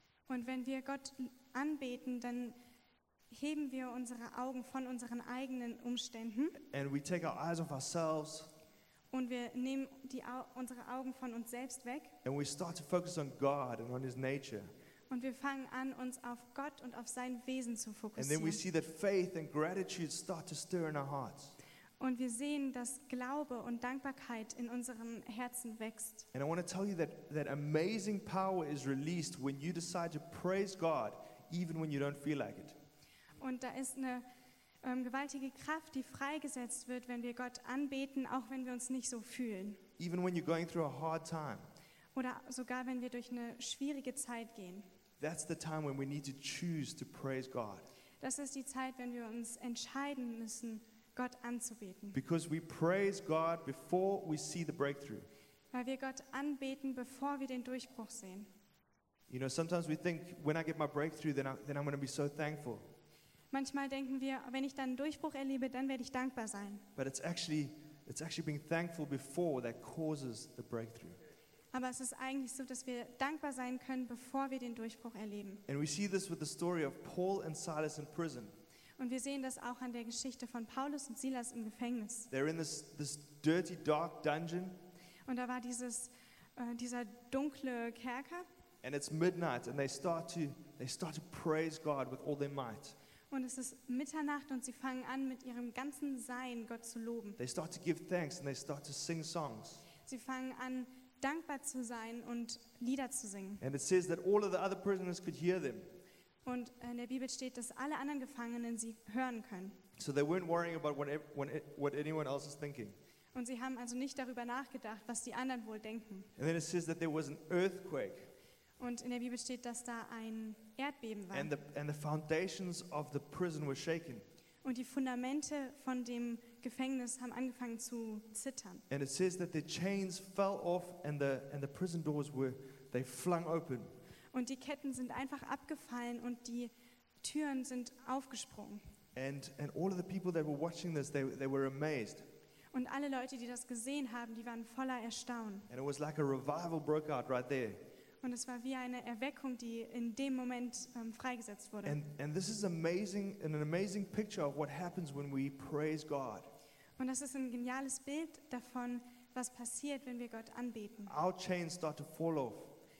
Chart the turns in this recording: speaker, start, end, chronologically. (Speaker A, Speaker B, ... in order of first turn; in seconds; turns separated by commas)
Speaker A: 0.3-2.5, Speaker A: 3.3-6.5, Speaker B: 6.6-8.5, Speaker A: 9.1-12.2, Speaker B: 12.2-14.7, Speaker A: 15.1-18.6, Speaker B: 18.1-21.6, Speaker A: 22.0-26.3, Speaker B: 26.3-32.8, Speaker A: 33.4-34.2, Speaker A: 34.8-39.8, Speaker B: 40.0-41.7, Speaker A: 42.1-44.9, Speaker B: 45.2-47.9, Speaker A: 48.2-52.2, Speaker B: 52.1-55.3, Speaker A: 55.7-58.5, Speaker B: 59.3-62.9, Speaker A: 63.5-66.8, Speaker B: 67.0-71.2, Speaker A: 71.7-75.6, Speaker B: 75.7-78.5, Speaker A: 79.0-82.3, Speaker B: 82.3-84.8, Speaker A: 85.2-88.5, Speaker B: 88.8-93.0, Speaker A: 93.3-97.4, Speaker B: 97.4-99.8, Speaker A: 100.0-103.6, Speaker B: 103.6-105.9, Speaker A: 106.4-109.8, Speaker B: 110.0-113.0, Speaker A: 113.3-116.3, Speaker B: 116.4-118.3, Speaker A: 118.8-121.5, Speaker B: 121.3-124.2, Speaker A: 124.6-128.8, Speaker B: 128.9-133.9, Speaker A: 134.3-138.8, Speaker B: 139.2-142.2, Speaker A: 142.7-145.7, Speaker B: 145.7-147.8, Speaker A: 148.2-152.0, Speaker B: 151.8-156.5, Speaker A: 157.0-161.1, Speaker B: 161.1-162.7